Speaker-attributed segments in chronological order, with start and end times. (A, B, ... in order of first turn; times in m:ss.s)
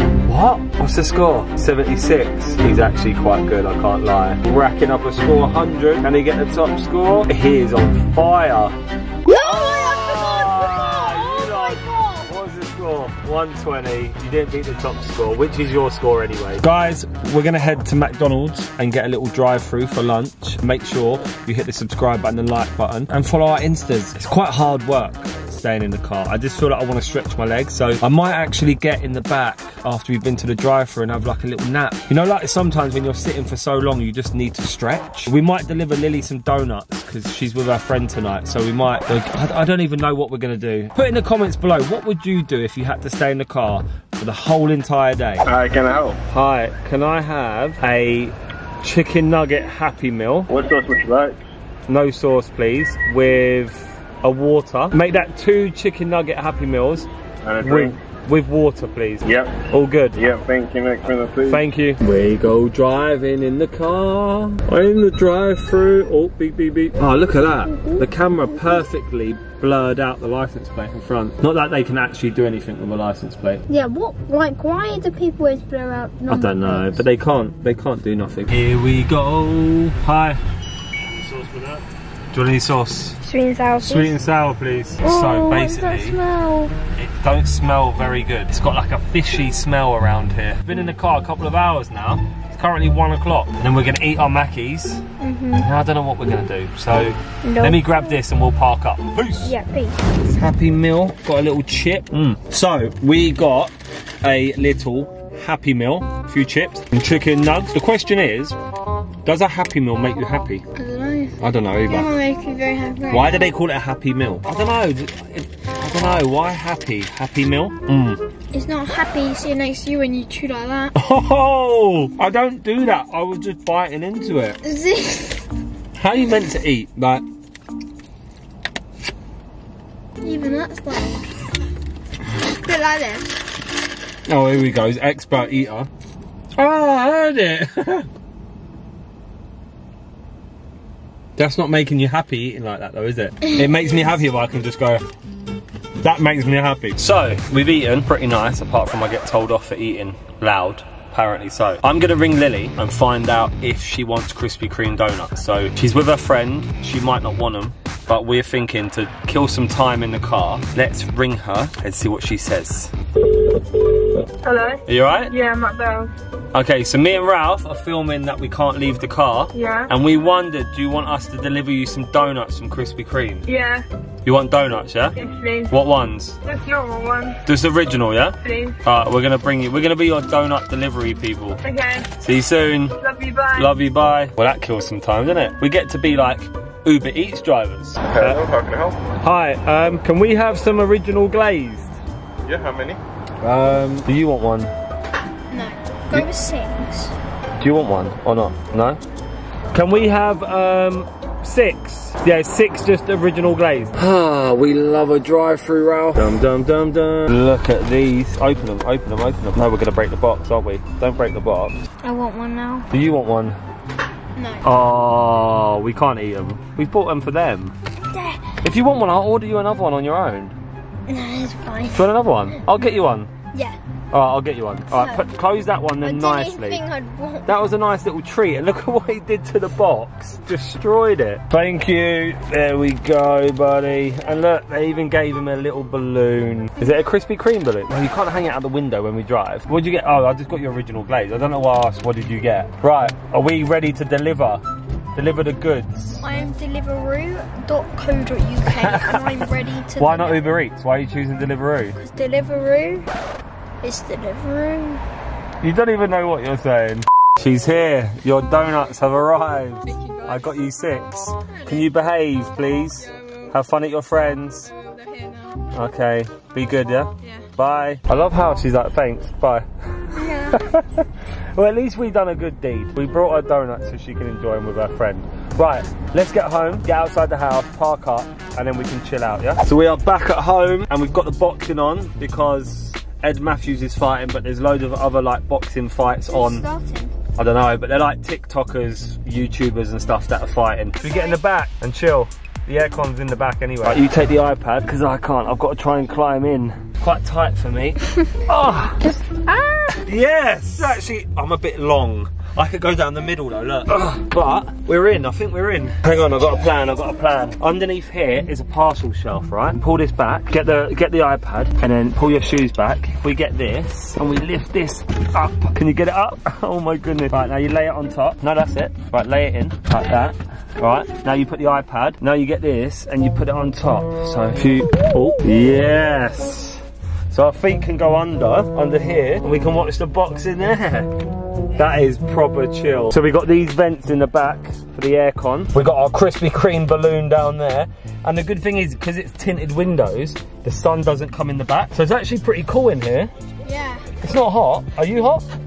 0:00.2-0:08.8 A
0:09.3-0:12.3 B
0:09.3-0:45.4 A
0:45.5-0:46.2 C
0:46.3-0:50.5 A
0:50.5-0:51.4 C
0:51.9-0:57.1 A
0:57.4-0:57.9 C
0:57.6-1:00.2 A
0:59.2-0:59.5 C
1:00.2-1:01.6 C
1:01.4-1:13.6 A
1:07.7-1:08.8 B
1:13.7-1:17.0 B
1:16.3-1:20.4 A
1:21.0-1:23.2 A
1:23.2-1:24.2 B
1:23.8-1:26.2 A
1:25.0-1:26.7 B
1:26.9-1:39.6 A
1:35.2-1:35.7 B
1:37.4-1:38.0 B
1:39.4-1:40.0 B
1:40.2-1:48.6 A
1:49.2-1:50.6 A
1:50.8-1:53.5 B
1:51.4-1:52.1 A
1:53.1-1:58.2 A
1:58.5-2:00.9 B
2:00.9-2:04.6 A
2:04.6-2:05.5 B
2:06.0-2:07.2 A
2:10.2-2:11.5 B
2:12.4-2:13.4 B
2:14.3-2:15.9 A
2:16.6-2:18.1 A
2:21.4-2:25.0 A
2:26.0-2:42.9 A
2:44.5-2:44.8 D
2:44.9-2:45.3 A
2:45.3-2:46.1 D
2:46.5-2:53.5 A
2:49.6-2:49.9 D
2:53.5-2:53.8 D
2:54.2-2:55.2 A
2:55.2-2:55.7 D
2:55.7-2:56.4 A
2:56.5-2:57.4 D
2:57.4-3:01.6 A
2:58.5-2:58.8 D
3:01.7-3:02.0 D
3:02.2-3:03.0 A
3:03.0-3:03.7 D
3:03.6-3:12.0 A
3:08.1-3:08.9 C
3:12.5-3:13.0 C
3:13.4-3:14.7 A
3:15.5-3:17.2 B
3:17.6-3:19.0 A
3:19.7-3:31.8 A
3:32.0-3:32.9 B
3:32.9-3:33.6 A
3:34.4-3:34.6 B
3:34.6-3:37.8 A
3:38.1-3:38.5 B
3:38.6-3:40.6 A
3:41.1-3:42.0 B
3:41.9-3:43.3 A
3:43.5-3:43.8 B
3:44.1-3:46.8 A
3:44.9-3:45.2 B
3:46.0-3:47.5 B
3:47.5-4:04.6 A
4:05.2-4:06.2 A
4:06.2-4:10.4 B
4:08.7-4:09.4 A
4:10.0-4:12.0 A
4:12.0-4:13.1 B
4:13.8-4:15.0 B
4:15.6-4:24.7 A
4:20.0-4:20.3 B
4:24.7-4:25.6 B
4:25.7-4:46.6 A
4:30.2-4:30.7 B
4:46.3-4:47.1 B
4:47.4-4:59.2 A
4:51.0-4:51.4 B
4:59.4-4:59.9 B
5:00.0-5:31.1 A
5:31.8-5:43.3 A
5:43.6-5:44.1 B
5:44.2-5:45.5 A